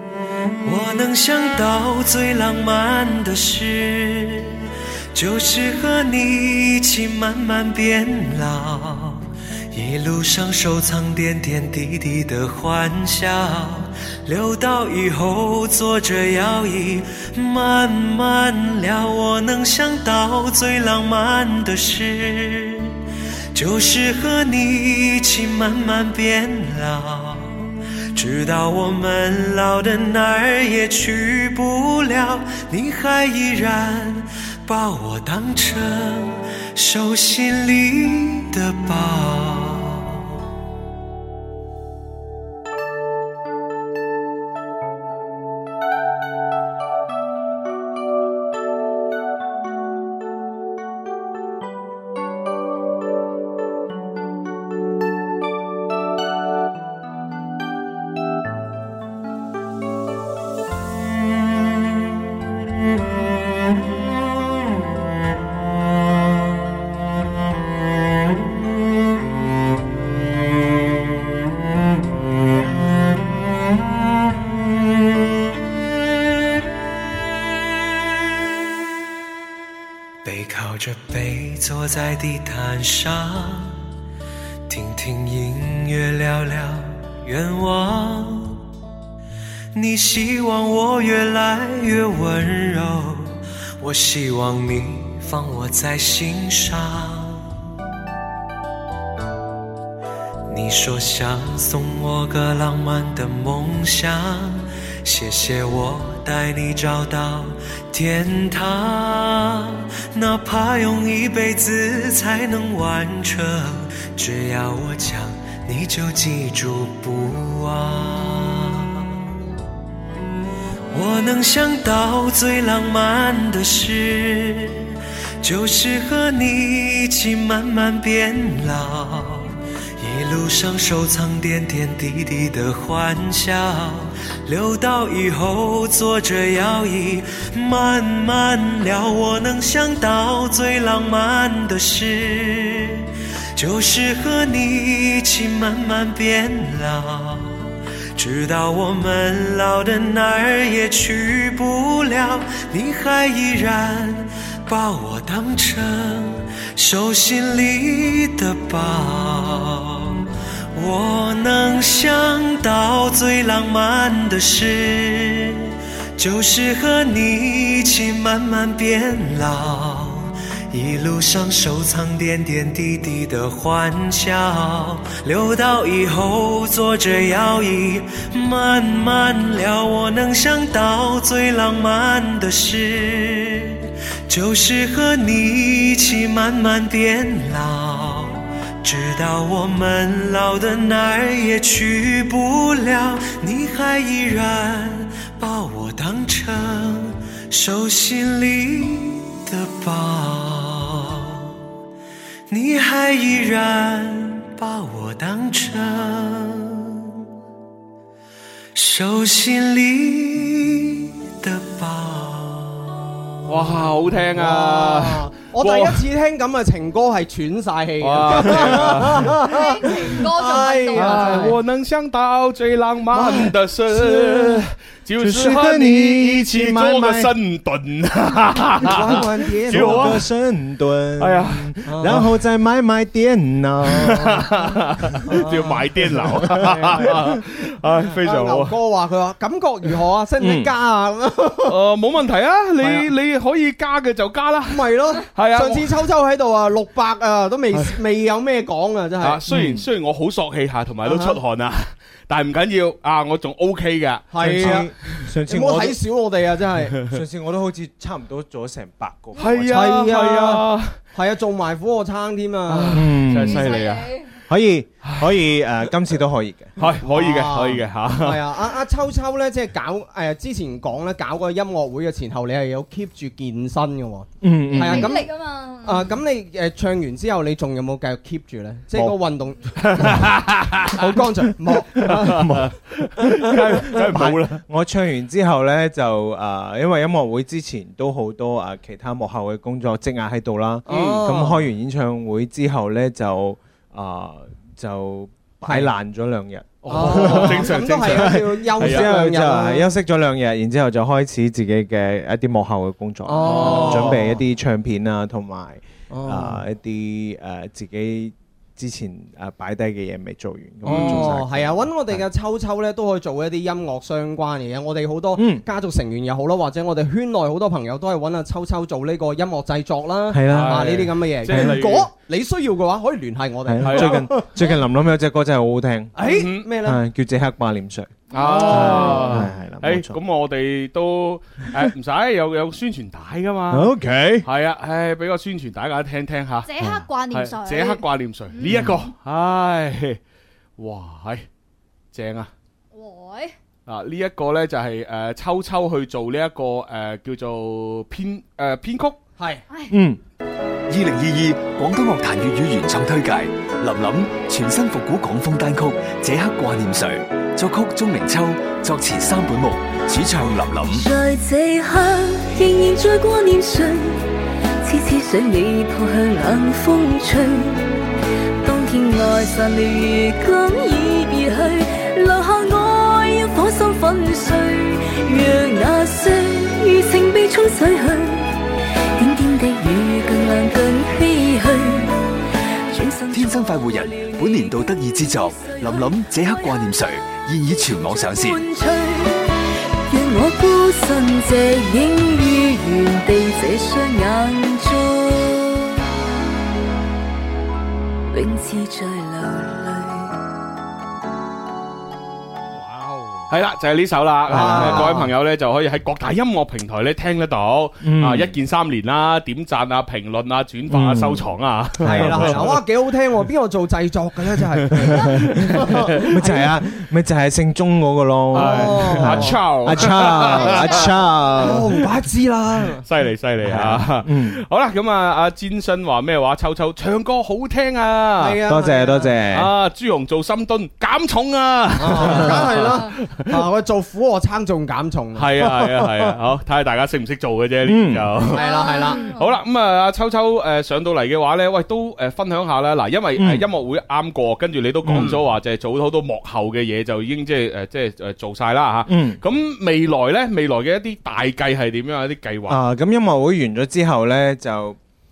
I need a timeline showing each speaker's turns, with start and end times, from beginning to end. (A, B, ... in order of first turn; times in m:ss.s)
0:00.6-0:23.0 A
0:23.5-0:40.2 A
1:20.2-1:23.8 A
1:24.7-1:28.6 A
1:29.7-1:37.5 A
1:40.5-1:59.2 A
2:00.9-3:21.5 A
3:22.5-3:27.2 A
3:28.8-3:33.1 A
3:33.5-3:36.0 B
3:34.3-3:41.6 C
3:38.0-3:39.4 B
3:39.4-3:41.5 D
3:40.9-3:50.2 B
3:43.2-3:43.5 C
3:45.2-3:47.3 E
3:48.8-3:50.3 C
3:49.0-3:54.5 E
3:51.2-3:52.2 B
3:51.9-3:52.3 C
3:53.8-3:58.8 B
3:55.3-4:01.8 C
3:56.4-3:56.8 E
4:00.4-4:00.7 E
4:01.7-4:06.0 B
4:02.8-4:03.1 C
4:04.7-4:09.5 C
4:07.7-4:08.0 B
4:09.2-4:15.2 B
4:09.5-4:09.8 E
4:11.0-4:11.4 C
4:14.3-4:14.9 C
4:14.4-4:16.0 E
4:15.5-4:17.0 C
4:17.0-4:19.9 E
4:19.4-4:21.0 B
4:19.6-4:23.2 C
4:22.7-4:24.2 B
4:22.9-4:23.8 E
4:23.4-4:24.3 D
4:24.5-4:26.8 E
4:25.0-4:25.3 B
4:26.8-4:28.7 B
4:27.0-4:35.3 C
4:34.4-4:35.1 E
4:34.8-4:36.1 D
4:35.8-4:40.3 C
4:39.8-4:44.6 B
4:40.9-4:42.6 C
4:42.4-5:12.2 E
4:50.9-4:51.7 C
4:50.9-4:51.3 B
4:55.6-4:55.9 C
4:56.8-4:59.9 C
4:56.9-4:59.1 B
5:03.2-5:04.4 C
5:03.4-5:04.2 B
5:06.1-5:06.6 C
5:10.8-5:24.7 C
5:10.9-5:11.4 B
5:15.4-5:15.7 E
5:20.3-5:21.9 E
5:20.5-5:22.1 B
5:23.7-5:26.2 E
5:23.8-5:24.3 B
5:26.2-5:27.0 C
5:26.2-5:26.7 B
5:26.8-5:30.2 E
5:28.3-5:33.9 B
5:28.4-5:29.5 C
5:33.7-5:34.5 E
5:34.4-5:36.7 B
5:36.6-5:38.8 D
5:37.3-5:40.2 B
5:38.7-5:39.0 E
5:40.8-5:41.5 B
5:42.1-5:42.5 B
5:42.9-5:43.5 D
5:43.9-5:49.2 B
5:49.4-5:49.6 C
5:49.7-5:50.0 D
5:49.9-5:50.2 E
5:50.9-6:01.1 F
6:00.9-6:04.3 G
6:04.8-6:07.9 G
6:08.6-6:18.6 G
6:19.2-6:22.3 G
6:22.9-6:26.1 G
6:23.3-6:28.6 F
6:28.0-6:29.5 G
6:30.1-6:36.0 G
6:38.3-6:40.3 G
6:42.8-6:43.5 C
6:43.5-6:52.6 B
6:44.5-6:45.3 C
6:44.5-6:45.2 E
6:48.0-6:48.6 E
6:50.9-6:51.5 E
6:52.0-6:52.8 E
6:52.0-6:56.8 C
6:54.9-7:02.0 E
6:58.5-7:00.0 C
6:58.5-7:01.1 B
7:01.6-7:03.0 C
7:03.0-7:08.6 B
7:03.6-7:04.6 E
7:08.4-7:09.4 C
7:08.7-7:09.7 E
7:09.5-7:13.6 B
7:12.0-7:16.3 C
7:15.4-7:32.8 B
7:17.8-7:18.4 E
7:18.5-7:19.2 C
7:18.5-7:19.4 D
7:23.4-7:23.7 E
7:25.0-7:25.4 E
7:25.1-7:25.4 C
7:29.1-7:29.4 E
7:32.7-7:35.0 E